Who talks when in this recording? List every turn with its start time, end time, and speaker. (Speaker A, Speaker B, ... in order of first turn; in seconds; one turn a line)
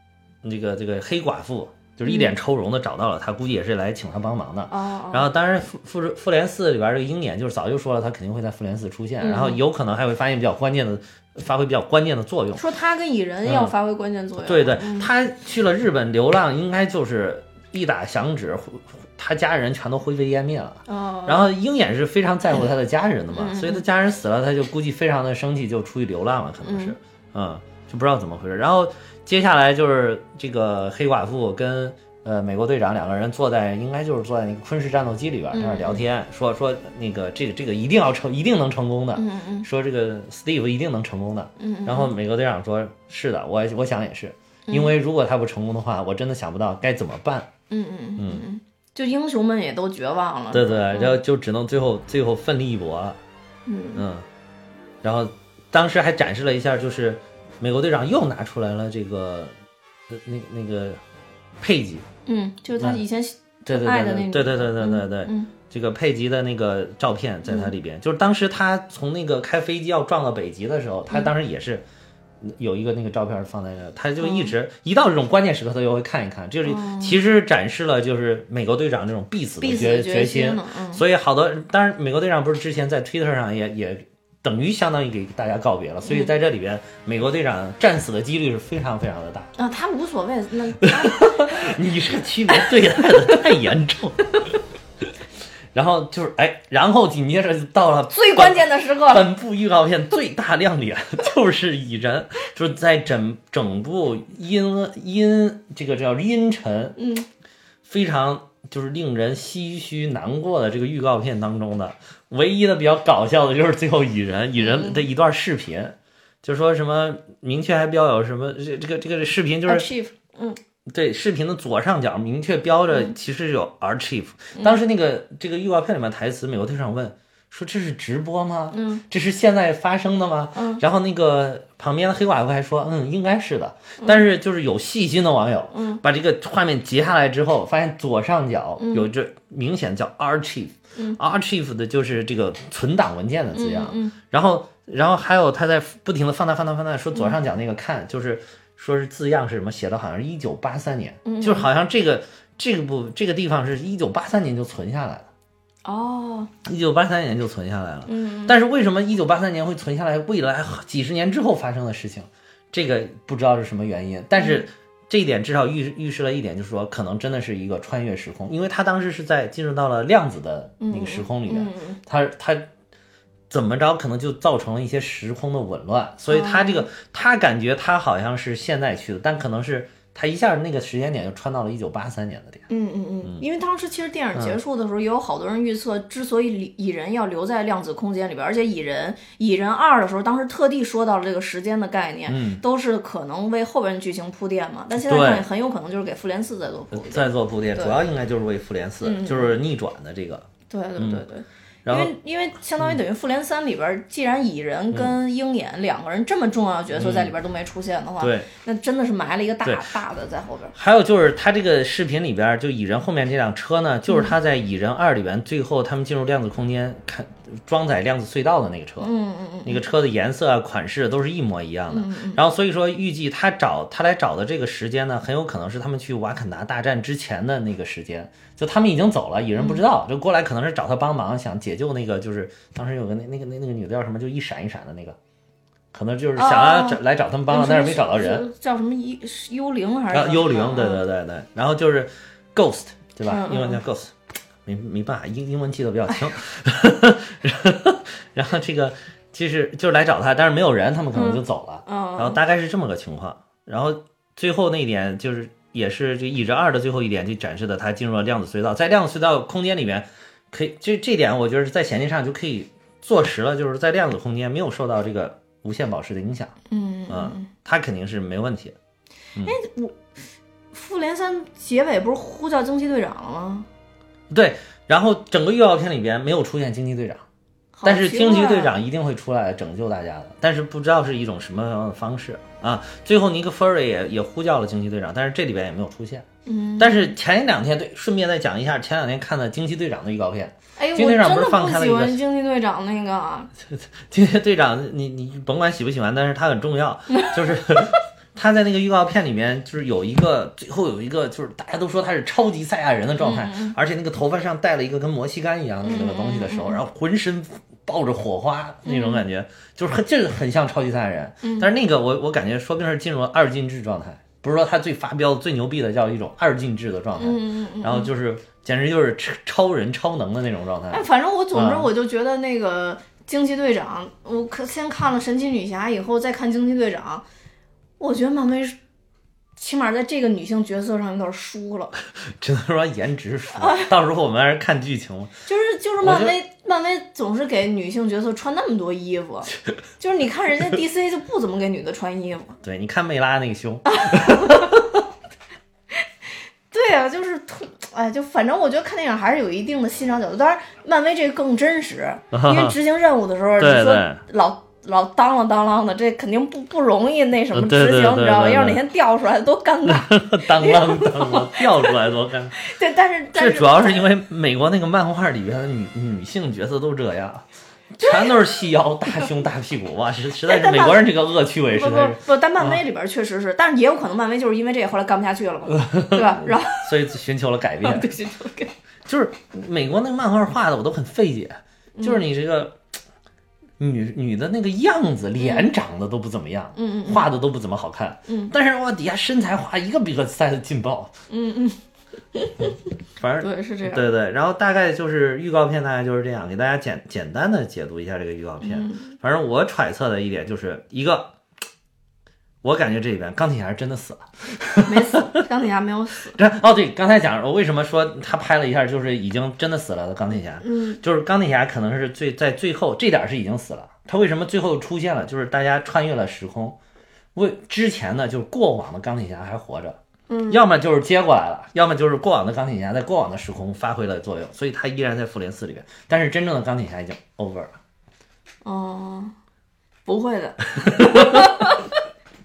Speaker A: 0.4-12.6
Speaker B: 2.0-2.3
Speaker B: 4.7-5.3
Speaker B: 9.2-9.6
Speaker B: 12.5-15.1
Speaker A: 13.4-13.7
Speaker A: 14.4-47.5
Speaker B: 20.9-21.5
Speaker B: 23.3-23.8
Speaker B: 26.6-26.9
Speaker B: 35.5-36.0
Speaker B: 39.1-39.7
Speaker B: 41.6-42.1
Speaker B: 44.7-44.9
Speaker B: 47.7-51.2
Speaker A: 48.2-48.4
Speaker A: 50.5-53.2
Speaker B: 53.6-54.0
Speaker A: 54.0-54.2
Speaker A: 55.0-59.5
Speaker A: 60.1-61.0
Speaker A: 61.6-62.0
Speaker B: 62.2-65.5
Speaker A: 63.6-71.8
Speaker B: 67.5-67.7
Speaker A: 72.4-89.5
Speaker B: 74.2-74.5
Speaker B: 76.6-77.2
Speaker B: 79.6-81.0
Speaker B: 86.0-86.3
Speaker B: 89.6-91.8
Speaker A: 90.9-94.2
Speaker B: 92.6-93.4
Speaker A: 95.7-107.0
Speaker B: 98.1-99.3
Speaker B: 107.0-107.3
Speaker A: 107.8-119.9
Speaker B: 114.6-115.0
Speaker B: 119.7-120.6
Speaker A: 120.9-155.3
Speaker B: 122.9-123.1
Speaker B: 124.5-124.8
Speaker B: 128.7-129.0
Speaker B: 130.5-130.8
Speaker B: 135.7-136.0
Speaker B: 138.8-139.1
Speaker B: 143.5-144.2
Speaker B: 151.2-151.7
Speaker B: 155.8-156.5
Speaker A: 156.6-172.7
Speaker B: 158.1-158.6
Speaker B: 164.4-164.6
Speaker B: 170.8-172.0
Speaker A: 173.5-182.6
Speaker B: 176.3-176.9
Speaker B: 182.7-198.0
Speaker A: 192.3-192.6
Speaker A: 195.0-195.4
Speaker A: 196.9-200.4
Speaker B: 199.0-199.6
Speaker B: 200.7-210.7
Speaker A: 201.0-201.2
Speaker A: 201.8-202.1
Speaker A: 206.9-207.3
Speaker A: 208.2-208.5
Speaker A: 210.7-219.1
Speaker B: 214.1-214.3
Speaker B: 219.0-219.8
Speaker A: 219.6-235.2
Speaker B: 221.9-222.4
Speaker B: 229.5-229.8
Speaker A: 235.9-238.4
Speaker B: 236.3-241.0
Speaker A: 240.1-244.1
Speaker B: 243.2-243.8
Speaker A: 244.6-266.5
Speaker B: 251.1-252.4
Speaker B: 266.7-267.5
Speaker A: 267.1-268.7
Speaker B: 269.4-270.1
Speaker B: 270.7-273.7
Speaker A: 274.3-277.2
Speaker B: 277.7-278.8
Speaker A: 277.8-286.2
Speaker B: 286.4-287.1
Speaker A: 286.8-292.2
Speaker B: 290.8-293.5
Speaker A: 293.6-321.9
Speaker B: 297.1-297.5
Speaker B: 303.2-303.8
Speaker B: 305.8-306.8
Speaker B: 308.8-309.2
Speaker B: 311.4-311.7
Speaker B: 317.1-318.1
Speaker B: 320.9-327.2
Speaker B: 328.0-328.8
Speaker B: 329.6-331.9
Speaker A: 332.4-335.3
Speaker B: 333.6-333.9
Speaker B: 335.4-342.6
Speaker A: 336.0-336.4
Speaker A: 342.6-344.9
Speaker B: 343.9-344.7
Speaker B: 346.7-362.0
Speaker A: 352.3-352.8
Speaker A: 353.6-354.2
Speaker A: 357.5-358.8
Speaker A: 359.9-362.5
Speaker B: 362.6-364.0
Speaker A: 363.3-367.4
Speaker A: 367.9-372.8
Speaker B: 368.0-368.5
Speaker B: 370.4-371.1
Speaker B: 371.6-376.9
Speaker A: 375.8-378.1
Speaker B: 377.8-378.7
Speaker A: 379.1-382.7
Speaker B: 382.0-382.2
Speaker A: 383.8-391.1
Speaker B: 385.4-385.7
Speaker B: 386.7-387.3
Speaker B: 388.3-388.5
Speaker B: 391.3-391.8
Speaker B: 392.3-392.8
Speaker A: 393.2-401.3
Speaker B: 393.4-394.1
Speaker B: 398.6-399.1
Speaker A: 402.6-405.3
Speaker B: 404.8-406.4
Speaker A: 406.3-416.8
Speaker B: 410.6-411.0
Speaker A: 417.3-420.0
Speaker B: 420.3-420.6
Speaker A: 420.5-427.8
Speaker B: 428.6-429.3
Speaker B: 430.1-431.9
Speaker A: 431.1-431.4